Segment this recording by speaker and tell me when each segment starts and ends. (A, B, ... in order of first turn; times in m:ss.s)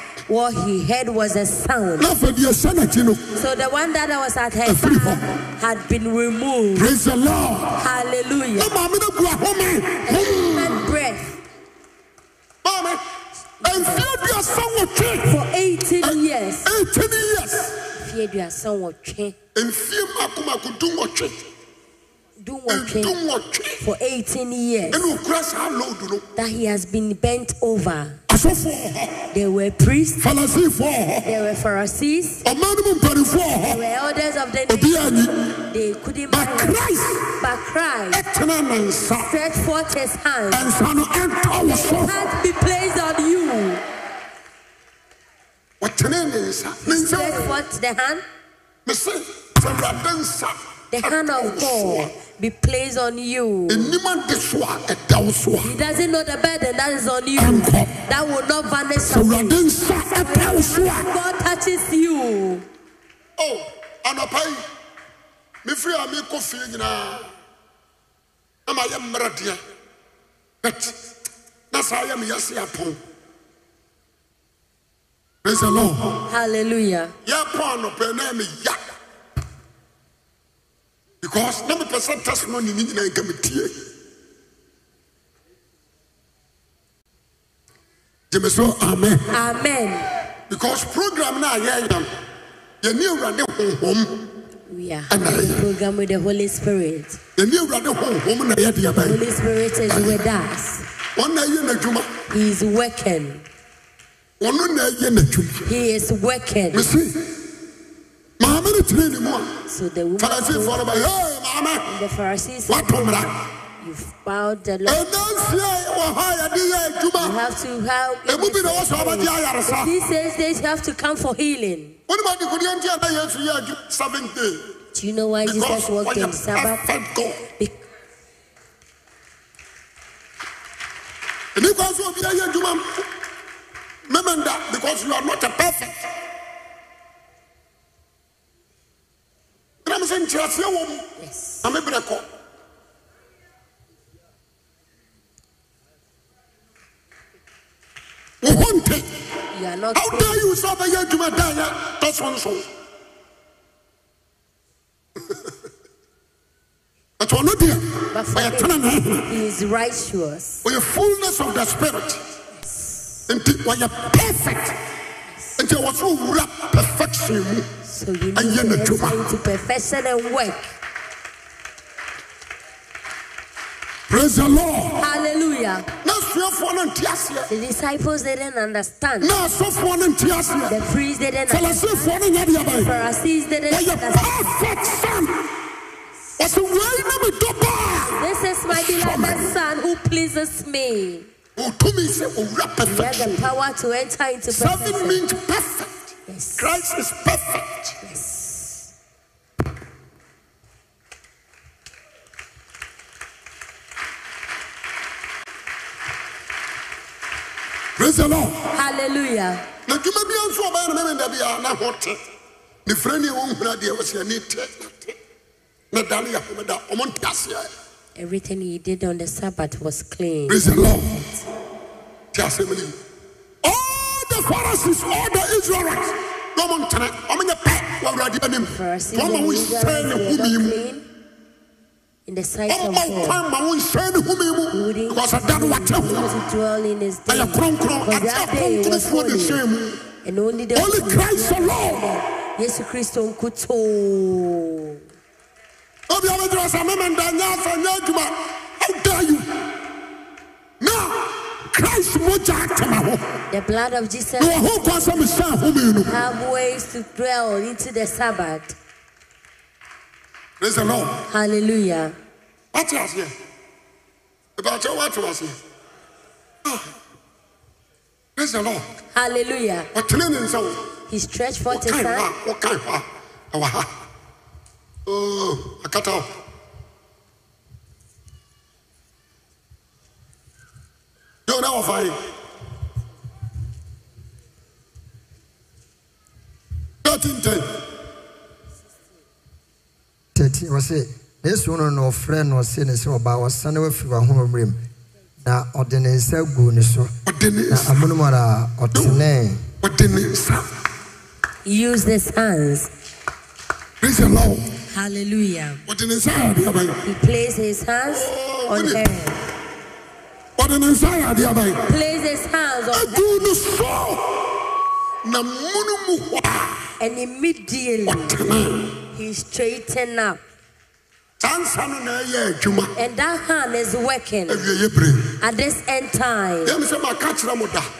0:00.3-0:02.1 A
0:02.0-0:03.2 B
0:03.4-0:06.9 A
0:04.6-0:05.2 B
0:06.8-0:07.8 B
0:07.8-0:08.8 A
0:08.6-0:10.9 B
0:10.0-0:11.4 A
0:12.6-0:13.0 B
0:13.6-0:14.1 A
0:13.6-0:15.4 B
0:15.2-0:16.7 A
0:16.0-0:17.8 B
0:18.0-0:19.3 A
0:19.5-0:21.4 B
0:22.4-0:23.2 A
0:22.7-0:23.8 B
0:23.8-0:25.0 A
0:24.9-0:26.2 B
0:26.4-0:28.2 A
0:28.3-0:29.2 B
0:29.3-0:30.2 A
0:30.2-0:31.3 B
0:31.2-0:32.4 A
0:32.4-0:33.8 B
0:33.6-0:35.1 A
0:34.7-0:35.5 B
0:35.7-0:36.8 A
0:36.3-0:37.4 B
0:37.4-0:38.2 A
0:38.1-0:39.3 B
0:39.2-0:40.7 A
0:40.5-0:42.2 B
0:41.6-0:43.8 A
0:45.8-0:47.6 B
0:46.8-0:48.2 A
0:48.8-0:52.1 B
0:50.9-0:53.9 A
0:53.7-0:55.7 B
0:55.6-0:59.6 A
0:57.4-0:57.9 B
0:59.1-1:01.1 B
1:00.2-1:02.6 A
1:03.4-1:04.6 B
1:05.6-1:07.3 B
1:08.6-1:09.6 B
1:10.6-1:11.0 B
1:11.7-1:13.0 B
1:15.4-1:16.2 B
1:16.2-1:17.1 A
1:17.2-1:18.9 B
1:21.2-1:23.7 B
1:28.3-1:29.3 B
1:29.3-1:30.1 A
1:30.5-1:32.1 B
1:32.8-1:34.2 B
1:34.7-1:37.2 A
1:35.1-1:35.6 B
1:37.4-1:39.2 B
1:39.0-1:40.9 A
1:39.9-1:40.2 B
1:41.2-1:42.1 B
1:42.3-1:43.4 A
1:44.4-1:45.7 B
1:45.6-1:46.9 A
1:46.7-1:47.2 B
1:48.4-1:49.6 B
1:49.7-1:51.1 A
1:50.2-1:51.9 B
1:51.9-1:55.0 A
1:52.7-1:53.4 B
1:54.8-1:57.4 B
1:57.2-2:02.0 A
1:58.3-1:59.9 B
2:02.1-2:04.7 B
2:04.9-2:06.8 A
2:05.4-2:07.4 B
2:11.5-2:13.0 B
2:14.1-2:16.1 B
2:19.8-2:21.1 B
2:21.2-2:21.6 A
2:21.6-2:22.2 B
2:28.4-2:29.1 B
2:29.5-2:30.5 A
2:29.9-2:32.6 B
2:37.2-2:39.3 B
2:38.1-2:40.6 A
2:40.6-2:42.2 B
2:42.6-2:43.2 A
2:43.3-2:44.8 B
2:45.6-2:47.7 B
2:47.8-2:50.7 A
2:48.4-2:49.3 B
2:54.1-2:55.1 B
2:55.0-2:55.9 A
2:56.0-2:57.5 B
2:57.5-2:59.4 A
2:59.2-3:00.8 B
3:00.7-3:04.6 A
3:01.5-3:02.9 B
3:03.7-3:05.4 B
3:06.4-3:09.5 B
3:08.0-3:11.3 A
3:11.6-3:13.4 B
3:12.8-3:15.2 A
3:14.5-3:18.0 B
3:16.3-3:16.7 A
3:18.0-3:18.9 A
3:28.0-3:28.7 B
3:28.7-3:29.6 A
3:29.9-3:32.2 B
3:32.8-3:35.2 B
3:35.9-3:37.7 B
3:38.2-3:41.4 A
3:40.5-3:41.2 B
3:42.3-3:42.9 B
3:43.6-3:50.8 B
3:48.6-3:51.0 A
3:52.3-3:53.4 A
3:52.7-3:56.3 B
3:54.7-3:59.6 A
3:57.3-4:00.0 B
4:00.2-4:05.0 A
4:00.7-4:02.2 B
4:06.1-4:09.6 B
4:10.8-4:13.2 B
4:13.5-4:15.3 A
4:14.4-4:16.1 B
4:16.1-4:18.8 A
4:20.6-4:21.2 B
4:21.3-4:22.2 A
4:22.7-4:23.3 B
4:24.6-4:25.6 B
4:26.6-4:26.9 B
4:28.4-4:28.8 B
4:29.1-4:29.9 A
4:29.9-4:30.8 B
4:31.1-4:32.3 A
4:31.7-4:33.9 B
4:35.0-4:36.3 B
4:41.5-4:42.2 B
4:47.0-4:47.7 B
4:50.3-4:54.8 C
4:55.4-4:57.1 C
4:57.2-4:58.0 B
4:57.7-4:59.6 C
4:58.9-4:59.2 B
4:59.8-5:00.7 B
5:01.6-5:02.9 A
5:04.0-5:04.7 B
5:04.9-5:05.8 A
5:05.9-5:07.0 B
5:07.0-5:09.4 A
5:08.1-5:09.1 B
5:10.6-5:11.9 B
5:11.8-5:13.6 A
5:12.9-5:14.4 B
5:15.2-5:16.8 B
5:17.0-5:18.4 A
5:18.1-5:19.0 B
5:19.1-5:20.4 A
5:21.4-5:22.9 B
5:23.0-5:24.6 A
5:24.5-5:25.4 B
5:25.4-5:26.8 A
5:26.6-5:27.9 B